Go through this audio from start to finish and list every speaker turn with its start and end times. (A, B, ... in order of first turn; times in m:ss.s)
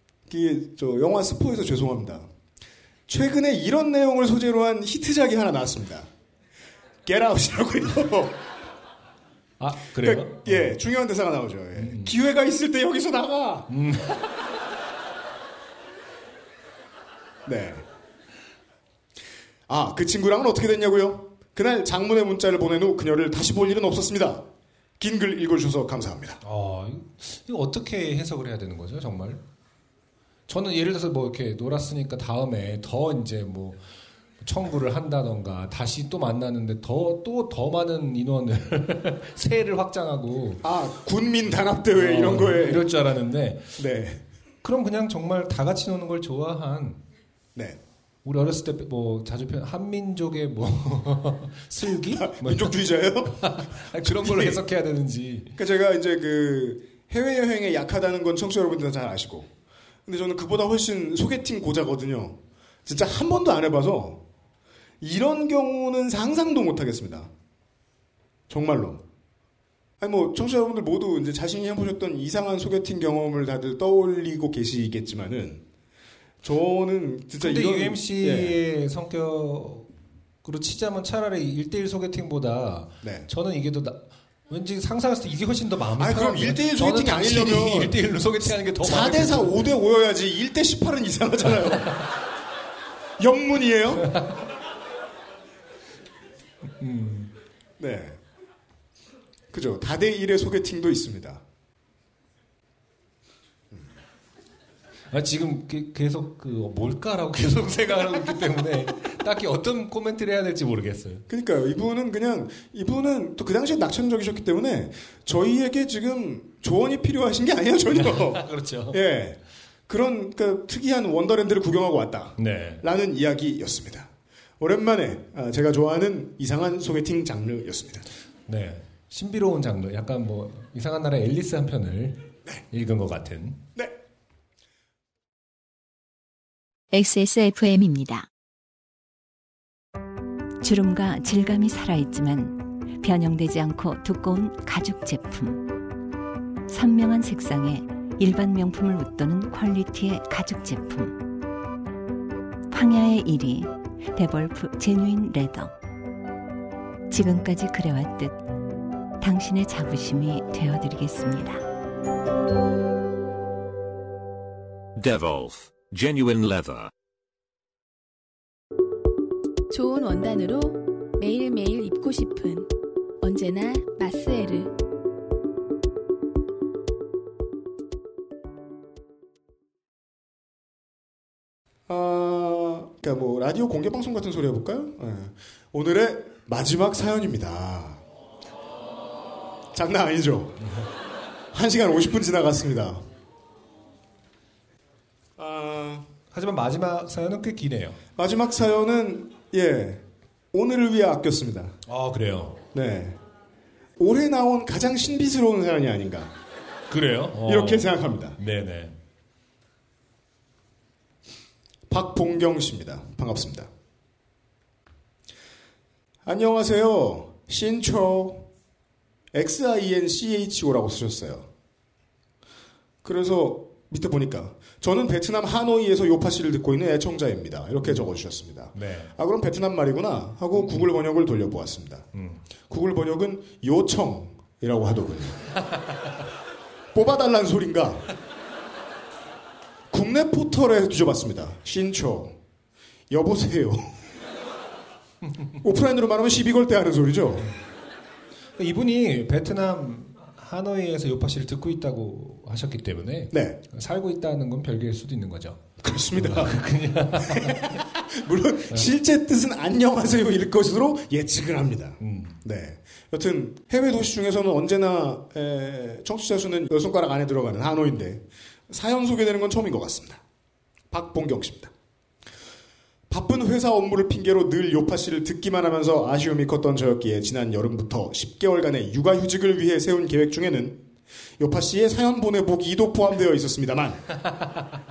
0:00.3-0:02.3 A
0:03.1-0:06.1 A
0:07.0-0:08.4 A
0:09.6-0:10.8 B
0:10.0-0:13.7 A
0:11.8-0:12.1 B
0:13.7-0:14.4 B
0:17.4-0:17.8 A
0:19.7-0:24.4 A
0:25.0-0:26.4 A
0:26.4-0:29.4 B
0:30.5-0:33.8 B
0:34.4-0:40.6 B
0:40.6-0:42.9 A
0:42.0-0:43.8 B
0:43.8-0:44.2 A
0:44.6-0:47.0 B
0:48.2-0:52.8 B
0:52.1-0:54.6 A
0:53.4-0:55.5 B
0:55.6-0:59.5 A
1:00.1-1:04.2 A
1:05.0-1:07.3 A
1:08.5-1:09.0 A
1:10.0-1:15.6 A
1:16.4-1:18.6 A
1:17.4-1:19.9 B
1:20.4-1:29.6 B
1:23.0-1:23.3 A
1:26.0-1:28.0 A
1:28.8-1:32.0 A
1:33.2-1:34.1 A
1:34.1-1:34.4 B
1:36.8-1:37.3 B
1:37.8-1:38.2 A
1:39.5-1:41.4 A
1:45.1-1:51.2 B
1:51.3-2:08.1 A
1:57.9-1:59.0 B
2:02.4-2:02.8 B
2:08.5-2:13.6 B
2:16.9-2:18.3 C
2:20.6-2:25.9 C
2:26.7-2:31.3 C
2:32.7-2:35.8 C
2:37.1-2:38.4 C
2:39.2-2:41.7 C
2:45.0-2:46.9 D
2:49.7-2:52.7 E
2:53.2-2:54.7 E
3:01.9-3:08.0 A
3:09.7-3:10.7 A
3:11.5-3:13.1 A
3:15.4-3:16.1 A
3:16.3-3:18.0 B
3:18.2-3:21.8 A
3:21.9-3:22.6 B
3:22.7-3:23.2 A
3:24.0-3:26.3 A
3:26.9-3:29.0 B
3:27.4-3:28.4 A
3:31.9-3:33.7 A
3:36.3-3:38.5 A
3:39.3-3:41.5 A
3:43.0-3:52.1 A
3:48.7-3:49.1 B
3:50.6-3:50.9 B
3:52.2-3:52.4 B
3:52.7-3:55.5 A
3:56.9-3:58.1 A
3:59.9-4:02.4 A
4:03.1-4:04.0 A
4:05.6-4:07.5 A
4:08.6-4:15.6 B
4:13.3-4:13.6 A
4:15.8-4:30.2 A
4:16.2-4:17.8 B
4:22.0-4:22.4 B
4:30.9-4:31.7 A
4:33.1-4:40.8 A
4:41.4-4:44.0 A